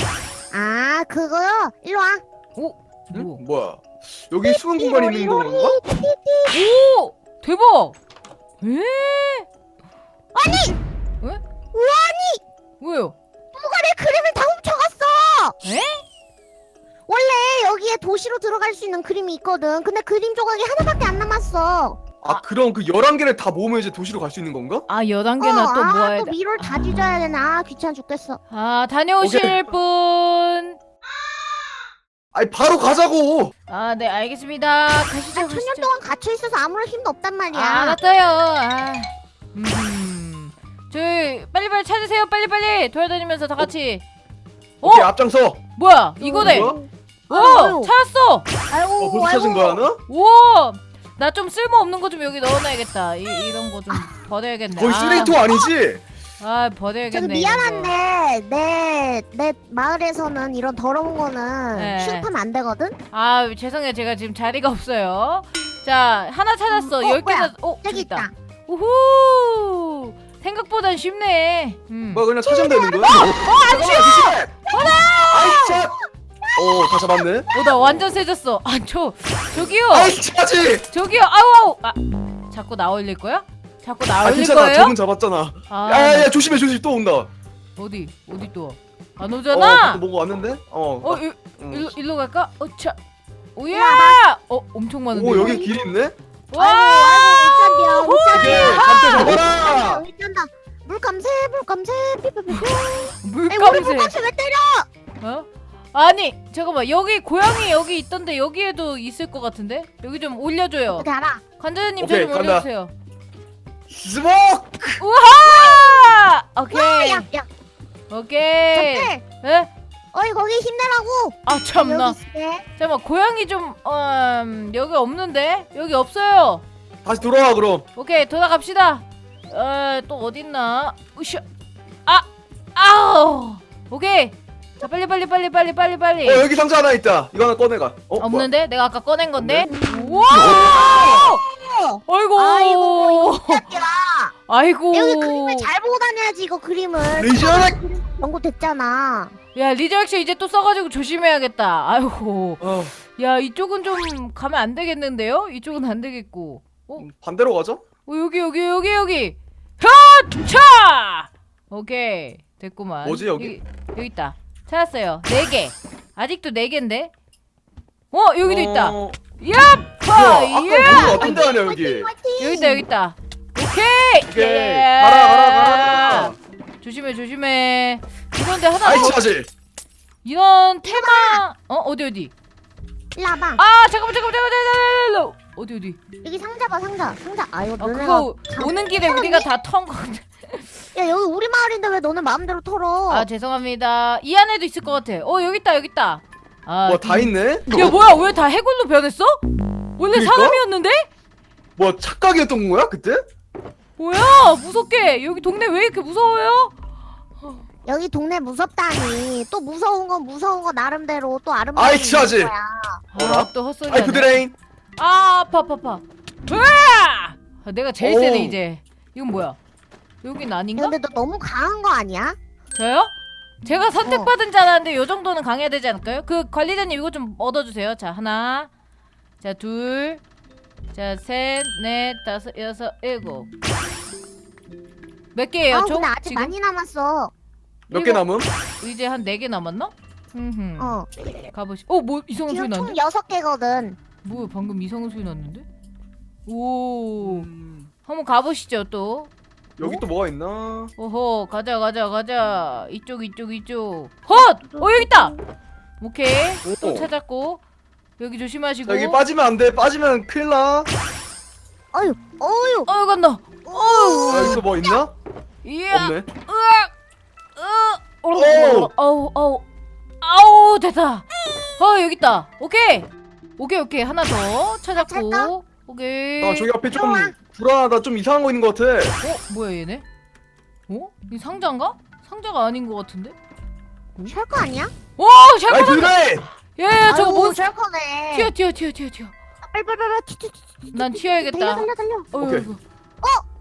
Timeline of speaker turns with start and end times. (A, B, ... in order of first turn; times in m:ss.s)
0:00.5-0:02.2 A
0:02.6-0:03.4 B
0:03.1-0:05.8 C
0:04.4-0:06.5 A
0:06.5-0:08.0 B
0:08.6-0:09.5 B
0:10.3-0:10.8 A
0:11.7-0:12.4 A
0:12.8-0:13.2 B
0:13.5-0:15.5 A
0:15.6-0:16.0 B
0:17.1-0:22.1 A
0:22.2-0:24.8 C
0:24.9-0:27.3 B
0:25.4-0:28.4 A
0:28.5-0:30.8 B
0:29.2-0:29.6 C
0:32.3-0:33.5 C
0:33.7-0:35.9 B
0:35.3-0:38.0 A
0:37.5-0:44.0 B
0:44.8-0:45.1 B
0:44.8-0:45.6 C
0:45.7-0:46.8 B
0:46.2-0:47.9 A
0:46.4-0:46.8 C
0:47.3-0:48.4 B
0:48.7-0:49.8 A
0:49.0-0:50.0 C
0:50.1-0:55.4 B
0:54.8-0:56.0 C
0:55.0-0:55.7 A
0:56.4-0:57.9 B
0:57.1-1:03.0 A
1:01.7-1:02.3 B
1:03.1-1:12.3 B
1:06.7-1:08.3 A
1:12.1-1:14.7 C
1:12.4-1:14.1 A
1:13.1-1:15.6 B
1:14.7-1:17.7 A
1:15.3-1:15.9 C
1:16.6-1:17.5 C
1:17.5-1:20.2 B
1:19.7-1:20.8 C
1:20.9-1:22.0 B
1:22.5-1:25.0 B
1:24.2-1:27.3 C
1:25.7-1:26.5 B
1:27.8-1:30.0 B
1:29.5-1:31.9 C
1:31.0-1:33.0 B
1:33.6-1:35.7 B
1:33.7-1:34.2 A
1:35.1-1:36.1 C
1:35.3-1:35.8 A
1:36.5-1:39.4 B
1:36.6-1:44.9 A
1:38.3-1:40.0 C
1:42.5-1:44.1 B
1:45.2-1:51.1 B
1:50.9-1:51.4 A
1:51.6-1:52.9 B
1:52.0-1:52.6 C
1:53.9-1:55.0 C
1:55.0-1:57.2 B
1:55.4-1:56.1 A
1:56.7-1:57.5 A
1:58.1-1:59.7 B
1:58.7-1:59.2 A
2:00.1-2:02.6 A
2:01.4-2:02.2 B
2:02.8-2:06.6 B
2:07.0-2:07.8 C
2:07.9-2:11.4 B
2:12.0-2:16.4 B
2:16.2-2:18.5 C
2:18.2-2:21.4 B
2:19.4-2:19.7 C
2:19.7-2:24.3 A
2:20.3-2:21.1 C
2:22.0-2:23.7 B
2:24.5-2:25.7 B
2:24.9-2:29.3 A
2:27.2-2:27.8 C
2:29.5-2:37.0 B
2:32.6-2:32.9 C
2:37.0-2:37.8 C
2:38.0-2:47.1 B
2:43.0-2:43.6 C
2:48.1-2:51.3 B
2:48.4-2:49.2 C
2:50.1-2:52.1 C
2:50.8-2:52.8 A
2:52.4-2:59.2 B
2:54.3-2:56.4 C
2:58.8-2:59.5 C
3:00.2-3:02.3 B
3:00.8-3:01.4 A
3:03.1-3:03.6 A
3:03.6-3:06.0 B
3:06.2-3:09.5 A
3:07.8-3:10.8 B
3:10.9-3:13.2 A
3:13.1-3:19.4 B
3:16.8-3:17.8 C
3:20.0-3:21.1 B
3:20.1-3:20.6 C
3:21.8-3:23.2 C
3:24.0-3:26.7 B
3:27.8-3:33.0 A
3:31.8-3:32.5 C
3:33.1-3:34.4 B
3:33.2-3:34.5 C
3:35.0-3:39.6 B
3:38.0-3:38.6 C
3:40.2-3:40.9 B
3:40.8-3:42.4 A
3:42.7-3:48.7 B
3:44.0-3:44.3 A
3:49.4-3:50.2 B
3:50.9-3:53.5 B
3:55.3-3:56.5 B
3:55.7-3:57.3 A
3:57.9-3:58.5 C
3:57.9-3:58.2 B
3:58.8-4:01.0 B
4:00.8-4:01.1 A
4:01.5-4:03.0 B
4:02.5-4:04.0 A
4:04.2-4:05.6 B
4:06.4-4:07.5 B
4:07.2-4:07.9 C
4:08.0-4:10.0 B
4:09.8-4:10.9 C
4:11.0-4:15.3 B
4:14.3-4:15.4 A
4:16.0-4:17.6 B
4:16.6-4:17.1 C
4:18.2-4:19.2 B
4:18.9-4:20.9 C
4:21.9-4:22.9 A
4:22.9-4:24.7 B
4:23.7-4:25.0 A
4:24.3-4:25.1 C
4:25.6-4:26.9 B
4:25.9-4:26.2 C
4:27.5-4:29.6 B
4:28.3-4:28.9 C
4:30.2-4:36.7 B
4:34.9-4:35.5 A
4:36.4-4:39.2 C
4:36.9-4:37.3 A
4:39.2-4:40.0 B
4:40.9-4:43.3 B
4:44.3-4:44.9 A
4:45.2-4:47.7 B
4:45.7-4:46.4 C
4:47.1-4:48.5 A
4:48.3-4:49.3 B
4:49.6-4:52.3 A
4:50.9-4:52.8 B
4:52.4-4:52.7 C